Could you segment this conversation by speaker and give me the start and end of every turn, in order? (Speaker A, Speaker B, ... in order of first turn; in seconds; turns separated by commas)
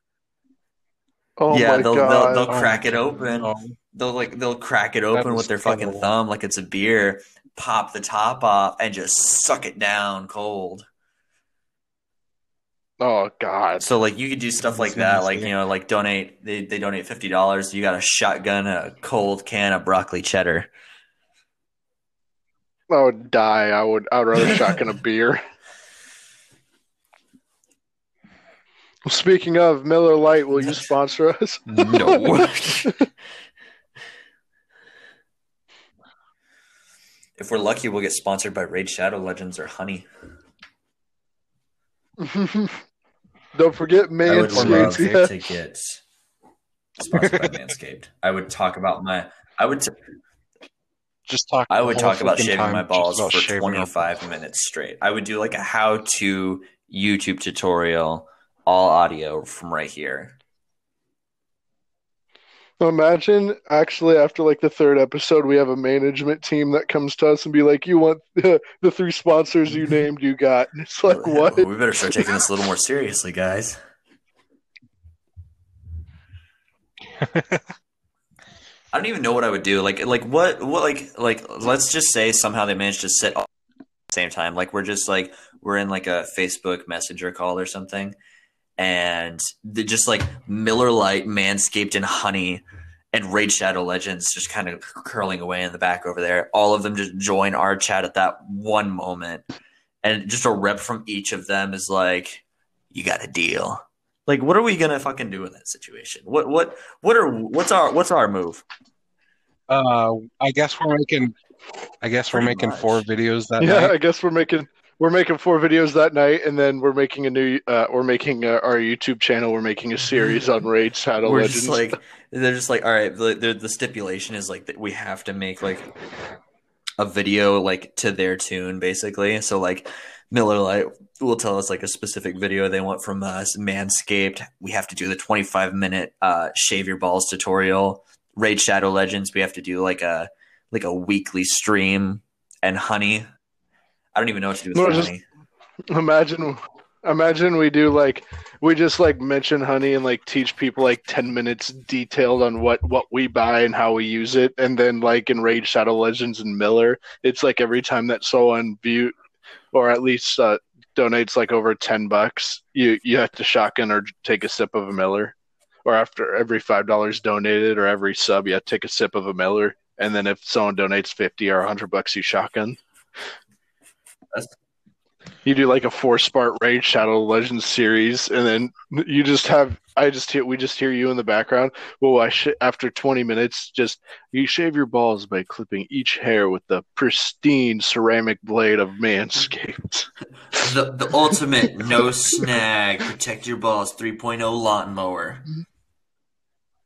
Speaker A: 1.4-2.5, Speaker B: 1.5-10.9, Speaker C: 2.5-3.8, Speaker C: 5.1-6.1, Speaker A: 13.0-13.8, Speaker B: 13.8-20.7, Speaker C: 14.7-15.5, Speaker A: 22.9-25.4, Speaker A: 29.1-32.9, Speaker B: 30.6-30.9, Speaker B: 31.7-32.9, Speaker B: 37.4-40.1, Speaker A: 42.2-42.8, Speaker A: 43.5-45.3, Speaker B: 44.2-46.0, Speaker C: 44.5-45.3, Speaker B: 47.0-49.9, Speaker C: 47.1-47.6, Speaker C: 51.3-54.1, Speaker B: 51.7-60.4, Speaker A: 62.8-71.7, Speaker B: 71.1-73.8, Speaker C: 77.2-77.7, Speaker B: 78.9-83.5, Speaker B: 84.1-88.2, Speaker B: 88.8-99.4, Speaker B: 100.0-108.6, Speaker C: 109.7-111.3, Speaker C: 112.0-113.9, Speaker B: 112.3-113.0, Speaker A: 113.6-121.9, Speaker B: 121.2-125.9, Speaker B: 127.0-143.3, Speaker B: 144.1-145.2, Speaker A: 144.7-145.1, Speaker A: 145.9-159.1, Speaker A: 159.7-172.8, Speaker A: 175.4-190.6, Speaker B: 190.6-195.5